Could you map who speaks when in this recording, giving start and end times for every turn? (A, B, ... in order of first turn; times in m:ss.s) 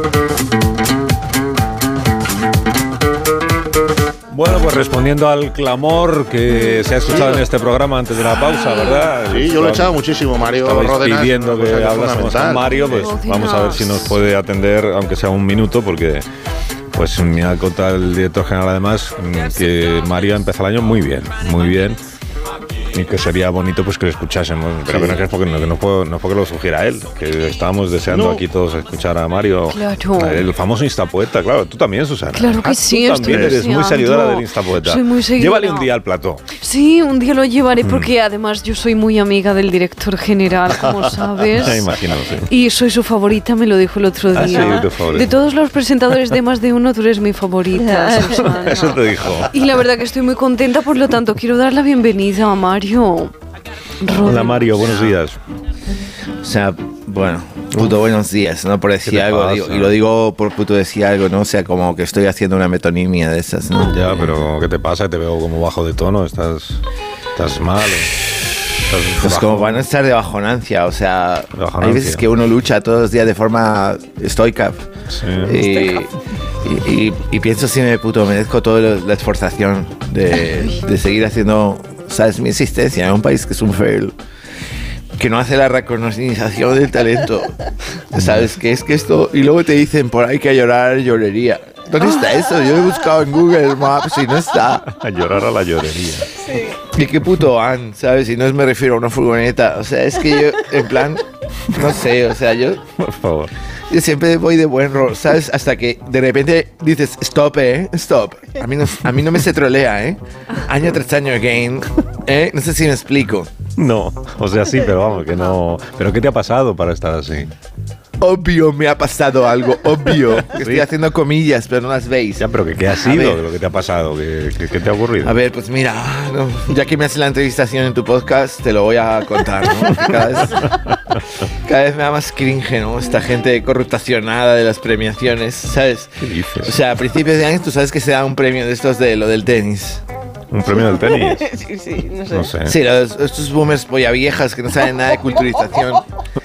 0:04.3-0:10.0 A
0:07.1-0:07.4 B
0:09.3-0:13.2 B
0:10.6-0:16.3 A
0:12.8-0:14.1 C
0:16.9-0:22.0 A
0:22.9-0:36.4 A
0:24.9-0:25.3 B
0:28.1-0:28.4 B
0:29.7-0:30.4 C
0:32.3-0:35.9 C
0:33.2-0:33.7 B
0:36.6-0:41.9 C
0:37.8-0:38.1 A
0:41.6-0:42.5 A
0:42.5-0:53.3 C
0:44.3-0:45.4 A
0:47.8-0:48.5 D
0:48.4-0:49.6 A
0:54.0-0:54.9 C
0:54.1-0:55.4 A
0:56.4-1:04.3 E
0:59.0-1:00.0 A
1:03.9-1:06.8 A
1:07.4-1:08.1 A
1:08.9-1:09.8 A
1:09.2-1:14.8 E
1:11.5-1:12.2 A
1:15.1-1:15.7 A
1:15.4-1:24.2 E
1:25.2-1:27.6 E
1:28.1-1:34.9 E
1:28.2-1:28.5 A
1:34.9-1:36.3 A
1:36.4-1:36.8 D
1:36.9-1:42.8 E
1:43.0-1:43.5 A
1:43.9-1:53.5 E
1:53.8-1:57.5 A
1:58.2-2:03.4 E
2:00.5-2:00.9 A
2:02.4-2:05.4 A
2:05.2-2:10.8 E
2:09.9-2:10.7 A
2:11.6-2:20.0 E
2:16.2-2:16.8 A
2:20.5-2:21.5 A
2:20.7-2:22.5 D
2:22.3-2:22.8 A
2:22.7-2:26.0 E